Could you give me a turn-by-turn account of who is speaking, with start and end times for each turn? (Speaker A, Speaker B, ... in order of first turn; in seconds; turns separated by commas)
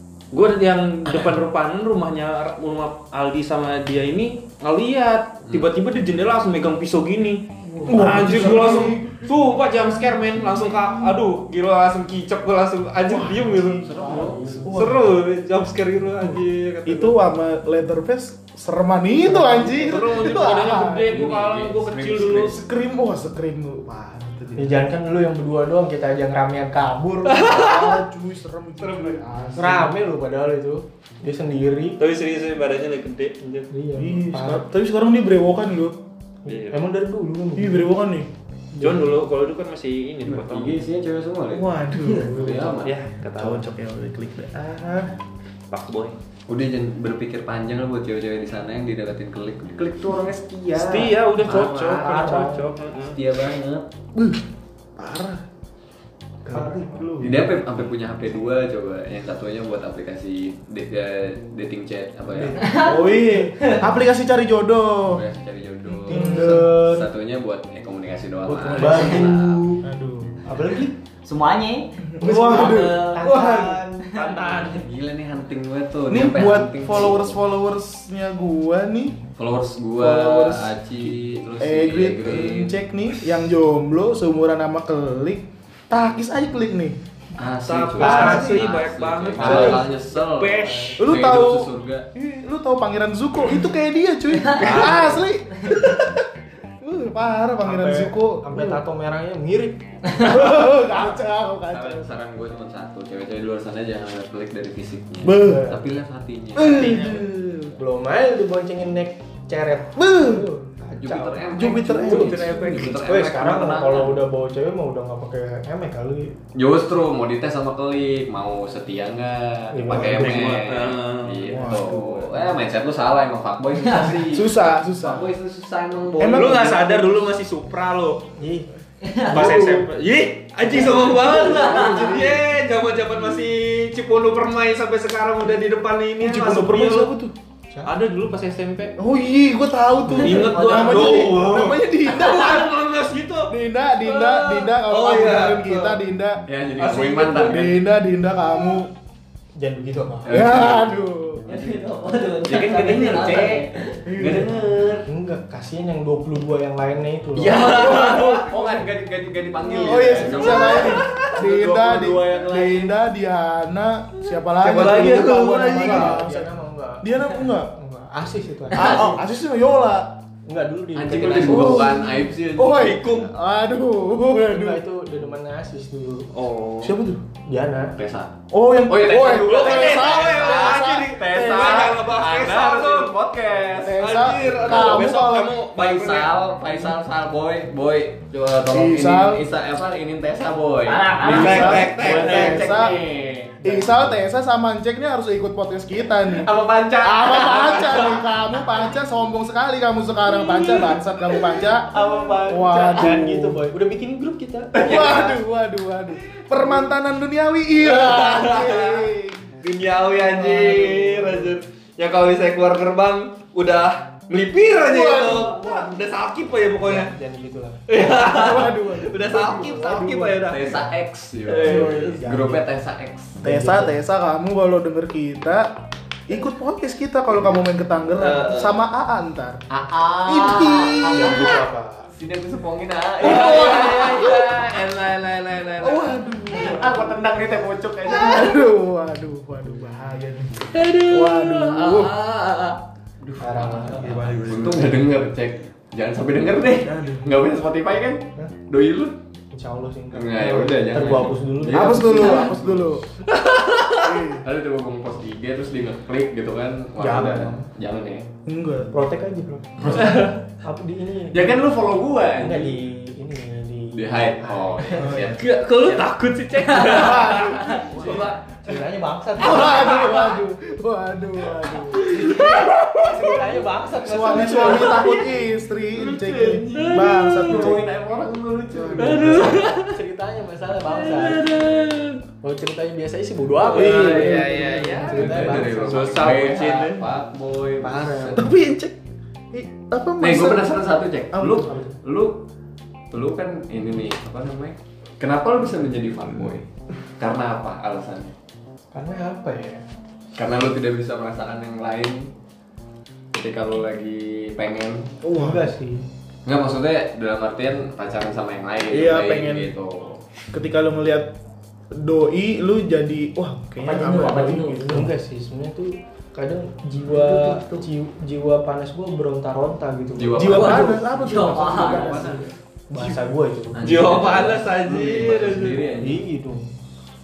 Speaker A: 0.3-17.2, Speaker B: 7.7-11.2, Speaker C: 7.9-8.5, Speaker B: 13.1-15.1, Speaker D: 13.8-14.7, Speaker C: 14.2-14.7, Speaker B: 16.9-21.3, Speaker C: 19.2-19.9, Speaker A: 19.7-22.6, Speaker D: 21.1-22.6, Speaker B: 22.4-24.8, Speaker C: 24.6-27.6, Speaker A: 27.3-28.0, Speaker B: 27.4-30.0, Speaker A: 28.8-29.2, Speaker C: 29.5-32.0, Speaker A: 32.0-33.7, Speaker C: 33.7-34.6, Speaker B: 34.0-36.0, Speaker A: 36.5-36.8, Speaker C: 36.5-37.9, Speaker B: 37.6-38.3, Speaker A: 38.8-40.8, Speaker D: 40.2-43.0, Speaker B: 41.5-42.8, Speaker A: 42.8-43.7, Speaker B: 43.4-45.1, Speaker A: 45.7-46.2, Speaker D: 46.5-52.0, Speaker A: 50.7-53.2, Speaker C: 51.5-52.7, Speaker D: 53.0-53.9, Speaker B: 54.1-54.4, Speaker B: 55.0-55.4, Speaker B: 56.4-57.5, Speaker C: 56.5-57.0, Speaker D: 57.2-62.7, Speaker B: 62.4-65.2, Speaker C: 62.4-62.8, Speaker E: 62.6-63.8, Speaker D: 65.1-69.7, Speaker C: 66.0-67.1, Speaker B: 66.1-66.8, Speaker C: 68.5-69.8, Speaker B: 69.8-70.4, Speaker C: 70.4-71.0, Speaker E: 71.2-73.2, Speaker B: 72.1-73.9, Speaker C: 72.3-74.3, Speaker A: 72.3-73.3, Speaker A: 74.1-74.8, Speaker D: 74.8-77.4, Speaker B: 76.1-79.2, Speaker D: 79.4-82.8, Speaker B: 80.0-87.0, Speaker D: 87.4-92.1, Speaker A: 87.7-91.0, Speaker C: 88.0-88.6, Speaker B: 88.0-88.7, Speaker C: 89.4-89.9, Speaker B: 89.4-89.7, Speaker C: 90.6-91.0, Speaker B: 91.0-96.3, Speaker A: 94.6-95.1, Speaker B: 96.8-98.8, Speaker C: 97.6-100.3, Speaker B: 100.1-102.1, Speaker D: 101.7-107.1, Speaker B: 105.2-105.7, Speaker C: 105.4-105.8, Speaker B: 106.5-107.8, Speaker C: 106.8-107.2, Speaker C: 107.8-116.4, Speaker B: 110.0-110.5, Speaker D: 111.0-114.2, Speaker B: 111.5-113.0, Speaker D: 116.5-126.6, Speaker C: 119.7-120.7, Speaker A: 119.9-121.5, Speaker B: 121.5-122.2, Speaker C: 121.6-122.1, Speaker E: 123.8-124.1, Speaker B: 124.3-125.3, Speaker B: 126.2-127.4, Speaker A: 126.2-128.3, Speaker C: 128.4-128.7, Speaker E: 129.0-129.7, Speaker A: 129.3-137.1, Speaker B: 129.3-129.9, Speaker C: 129.4-129.6, Speaker B: 130.7-132.4, Speaker B: 136.2-137.3, Speaker C: 137.7-137.9, Speaker A: 137.8-139.0, Speaker B: 139.0-142.7, Speaker E: 140.2-141.3, Speaker A: 140.2-146.0, Speaker B: 143.5-148.9, Speaker D: 146.5-147.8, Speaker A: 146.8-147.4, Speaker C: 149.6-150.5, Speaker D: 150.2-150.9, Speaker B: 150.3-151.5, Speaker D: 151.5-151.8, Speaker E: 151.5-154.0, Speaker D: 152.4-155.1, Speaker B: 154.1-154.5, Speaker C: 155.1-158.1, Speaker D: 157.4-162.8, Speaker A: 157.4-158.5, Speaker B: 157.6-158.7, Speaker B: 159.6-166.5, Speaker A: 160.2-162.9, Speaker A: 164.6-166.2, Speaker D: 164.8-165.1, Speaker C: 165.7-169.2, Speaker B: 167.0-167.7, Speaker B: 168.7-170.1, Speaker C: 170.5-171.9, Speaker D: 170.9-173.1, Speaker B: 171.2-174.8, Speaker A: 172.8-173.3, Speaker C: 174.4-176.3, Speaker A: 176.3-177.0, Speaker B: 176.8-177.2, Speaker C: 177.3-177.9, Speaker D: 177.9-185.2, Speaker B: 178.5-181.8, Speaker A: 179.3-183.1, Speaker B: 183.7-185.6, Speaker A: 184.0-186.4, Speaker D: 185.7-194.1, Speaker B: 188.7-189.4, Speaker E: 190.9-191.8, Speaker A: 191.2-192.9, Speaker B: 191.2-193.0, Speaker C: 192.1-192.6, Speaker C: 193.6-194.1, Speaker B: 193.6-203.6, Speaker D: 196.3-198.3, Speaker A: 200.5-200.9, Speaker A: 201.9-202.5, Speaker D: 202.0-202.9, Speaker C: 202.2-205.1, Speaker D: 204.8-205.4, Speaker B: 204.8-209.5, Speaker A: 207.8-209.1, Speaker A: 209.6-217.1, Speaker B: 210.3-211.4, Speaker B: 214.8-215.9, Speaker C: 216.8-217.8, Speaker A: 217.9-220.9, Speaker B: 217.9-220.5, Speaker D: 220.5-223.4, Speaker A: 221.5-222.2, Speaker B: 221.6-222.6, Speaker C: 223.4-223.9, Speaker B: 223.4-225.7, Speaker B: 226.3-229.6, Speaker A: 228.2-228.8, Speaker D: 229.7-231.6, Speaker B: 230.2-231.6, Speaker C: 230.9-232.1, Speaker D: 232.1-234.8, Speaker B: 233.2-234.6, Speaker A: 233.2-237.1, Speaker B: 235.8-242.1, Speaker A: 238.0-238.6, Speaker A: 240.7-242.8, Speaker C: 243.4-244.9, Speaker A: 243.6-244.4, Speaker B: 244.2-244.6, Speaker D: 244.4-249.2, Speaker B: 246.8-247.4, Speaker C: 249.5-252.6, Speaker D: 250.1-252.9, Speaker B: 251.7-253.1, Speaker A: 253.3-254.0, Speaker B: 254.0-254.4, Speaker D: 254.4-258.3, Speaker C: 257.0-257.7, Speaker B: 258.5-259.0, Speaker C: 258.9-261.7, Speaker D: 259.8-260.3, Speaker D: 261.3-262.8, Speaker C: 262.4-265.2, Speaker D: 263.9-266.1, Speaker B: 265.0-265.4, Speaker A: 265.4-268.4, Speaker B: 266.8-268.3, Speaker C: 267.8-270.1, Speaker D: 267.9-268.4, Speaker B: 269.4-272.5, Speaker A: 269.4-270.4, Speaker A: 272.0-273.4, Speaker C: 272.2-275.2, Speaker B: 274.0-277.9, Speaker A: 274.4-275.3, Speaker A: 276.0-277.8, Speaker D: 276.4-279.6, Speaker B: 278.7-279.6, Speaker A: 278.9-279.9, Speaker C: 279.1-281.7, Speaker A: 280.9-282.2, Speaker C: 282.4-286.4, Speaker A: 283.7-287.1, Speaker D: 283.7-288.5, Speaker B: 283.8-285.1, Speaker C: 287.8-288.5, Speaker B: 288.4-289.0, Speaker B: 289.5-291.8, Speaker D: 290.2-292.4, Speaker D: 293.1-296.7, Speaker D: 297.2-298.3, Speaker C: 298.9-299.8, Speaker D: 300.3-302.3, Speaker D: 303.3-305.1, Speaker B: 305.2-305.6, Speaker C: 305.3-306.1, Speaker D: 306.5-310.2, Speaker B: 308.9-309.7, Speaker B: 310.5-311.3, Speaker B: 311.9-315.0, Speaker E: 313.8-315.1, Speaker C: 314.0-324.2, Speaker D: 320.2-321.1, Speaker B: 320.4-322.5, Speaker E: 320.7-322.4, Speaker D: 323.7-326.2, Speaker A: 323.8-325.9, Speaker C: 326.0-326.7